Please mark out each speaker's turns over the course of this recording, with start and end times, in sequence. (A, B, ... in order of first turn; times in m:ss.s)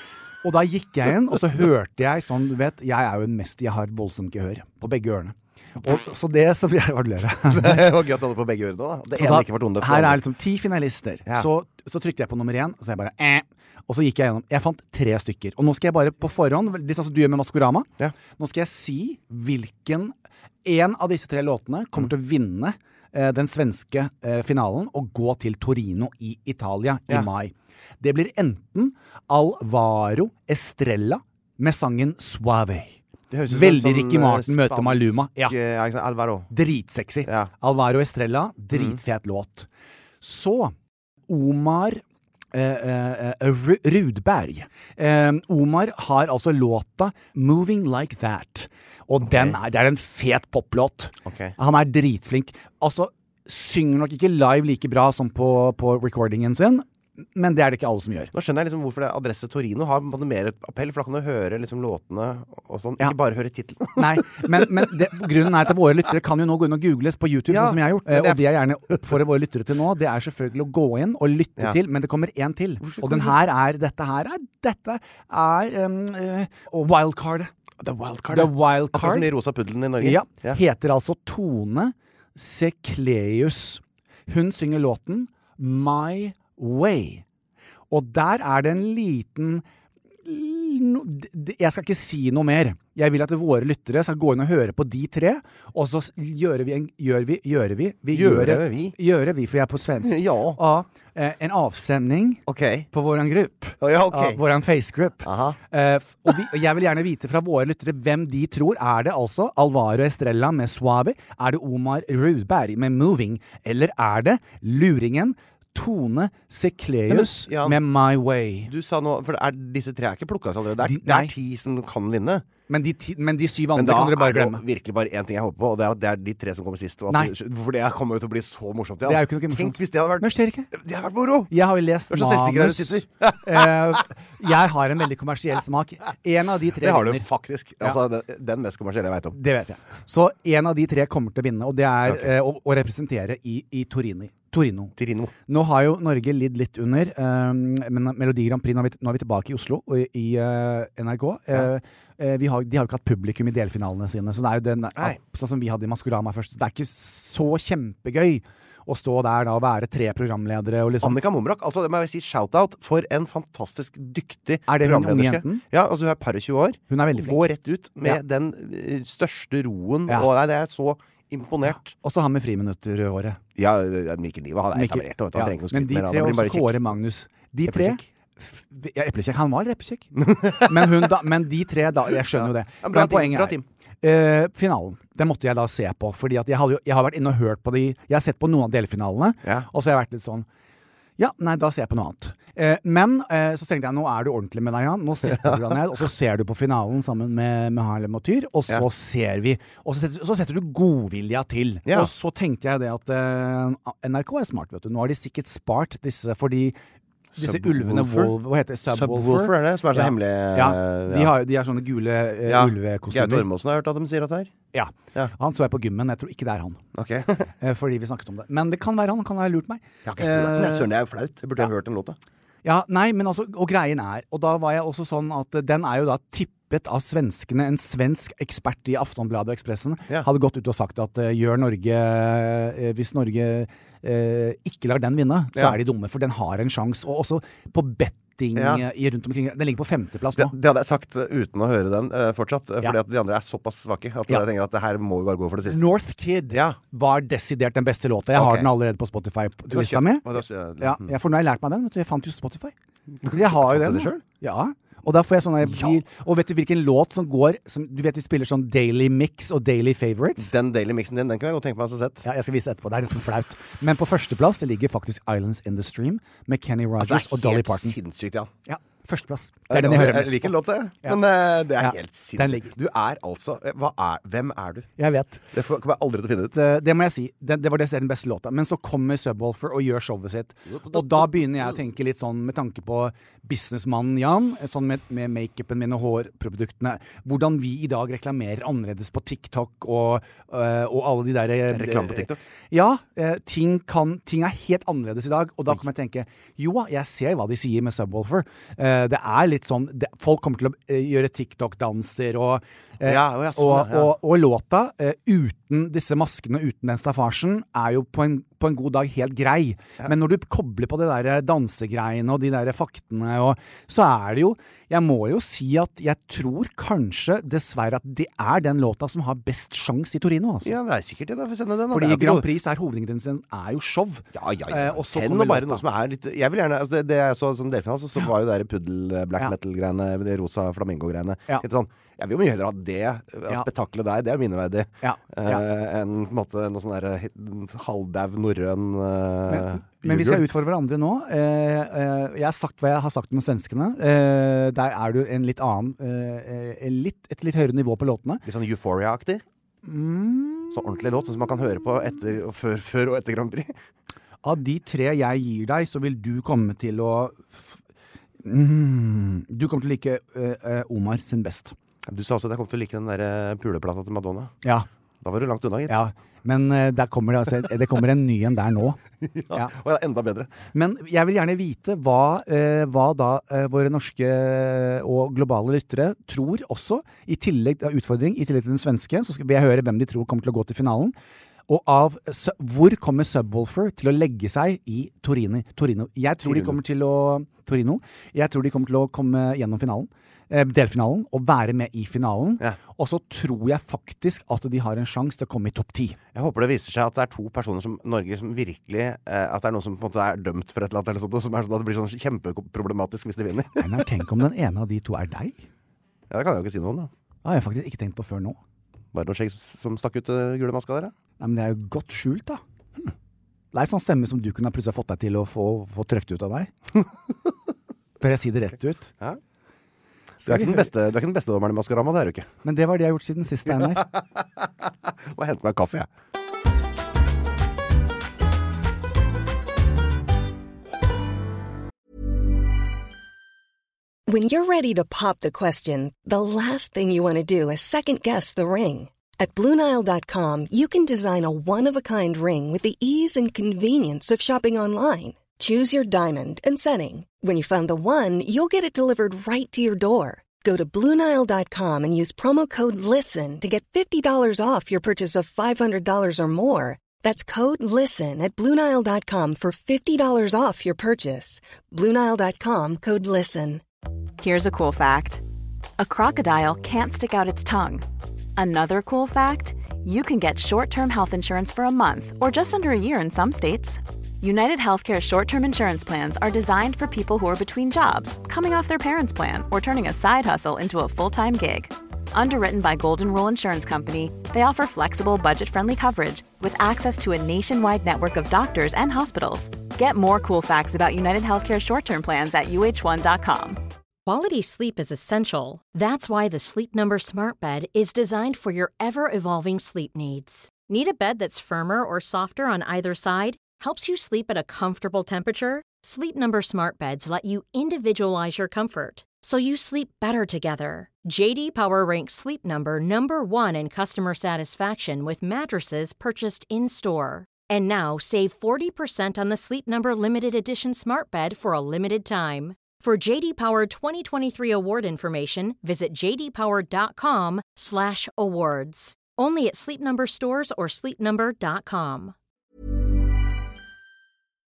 0:00.4-0:07.9 A
0:07.5-0:10.2 B
0:09.2-0:35.6 A
0:33.3-0:36.5 B
0:36.5-0:39.7 A
0:37.2-0:37.5 B
0:38.7-0:39.0 B
0:40.2-0:40.8 A
0:41.3-0:42.0 A
0:42.5-0:58.3 A
0:49.2-0:49.6 B
0:51.2-0:51.6 B
0:58.3-1:04.9 B
1:04.0-1:17.5 A
1:07.5-1:09.0 B
1:12.8-1:13.4 B
1:17.8-1:20.6 B
1:18.3-1:19.4 A
1:20.0-1:27.2 A
1:27.9-1:29.6 A
1:30.2-1:58.7 A
1:38.1-1:39.0 B
1:40.0-1:40.6 B
1:42.5-1:42.9 B
1:43.8-1:44.4 B
1:45.2-1:45.6 B
1:57.1-1:57.8 B
1:58.7-2:02.5 B
2:00.8-2:01.3 A
2:02.7-2:04.6 A
2:03.7-2:11.5 B
2:09.1-2:10.7 A
2:11.5-2:17.3 A
2:12.1-2:14.0 B
2:16.8-2:19.4 B
2:19.3-2:24.9 A
2:25.0-2:25.3 B
2:25.5-2:41.2 A
2:41.0-2:51.9 B
2:44.7-2:45.6 A
2:46.9-2:47.4 A
2:51.7-2:53.4 A
2:53.6-2:57.0 B
2:54.7-3:10.5 A
2:57.7-2:58.0 B
3:00.2-3:01.1 B
3:02.3-3:03.6 B
3:11.2-3:26.8 A
3:15.3-3:15.7 B
3:27.4-3:28.4 B
3:27.4-3:33.5 A
3:28.9-3:31.4 B
3:32.5-3:34.5 B
3:34.7-3:36.8 A
3:36.9-3:37.5 B
3:37.6-3:40.9 A
3:40.0-3:42.2 B
3:42.6-4:00.5 A
3:58.6-3:58.8 B
4:00.4-4:05.8 B
4:05.7-4:12.7 A
4:06.5-4:06.8 B
4:08.3-4:08.7 B
4:09.7-4:11.1 B
4:13.2-4:14.2 B
4:13.2-4:20.5 A
4:15.6-4:16.0 B
4:20.4-4:22.3 B
4:22.2-4:28.0 A
4:27.0-4:28.5 B
4:28.7-4:31.2 A
4:29.7-4:34.9 B
4:31.8-4:32.7 A
4:35.0-4:35.4 A
4:35.5-4:36.6 B
4:36.5-5:20.8 A
4:40.7-4:41.7 B
4:51.7-4:52.4 B
5:03.0-5:04.1 B
5:20.6-5:22.5 B
5:21.9-5:25.8 A
5:24.3-5:40.5 B
5:35.0-5:35.6 A
5:39.5-5:48.4 A
5:48.4-5:49.4 B
5:49.8-5:50.8 A
5:50.7-5:53.8 B
5:54.4-5:57.8 A
5:58.4-6:01.8 A
6:02.0-6:04.6 B
6:04.6-6:04.9 A
6:05.2-6:06.0 B
6:05.9-6:09.0 A
6:09.2-6:10.6 B
6:10.7-6:21.2 A
6:21.7-6:36.2 A
6:26.4-6:26.8 B
6:36.4-6:44.1 B
6:43.8-6:45.6 A
6:46.3-6:47.1 B
6:47.4-6:48.6 A
6:49.1-6:51.1 B
6:51.4-6:52.6 A
6:53.7-6:56.7 A
6:58.2-6:59.1 A
7:00.4-7:02.5 B
7:00.4-7:00.9 A
7:02.6-7:04.1 A
7:03.7-7:06.1 B
7:14.3-7:43.8 C
7:44.4-7:45.4 D
7:46.0-7:48.0 D
7:48.6-8:13.8 D
8:14.3-8:52.4 E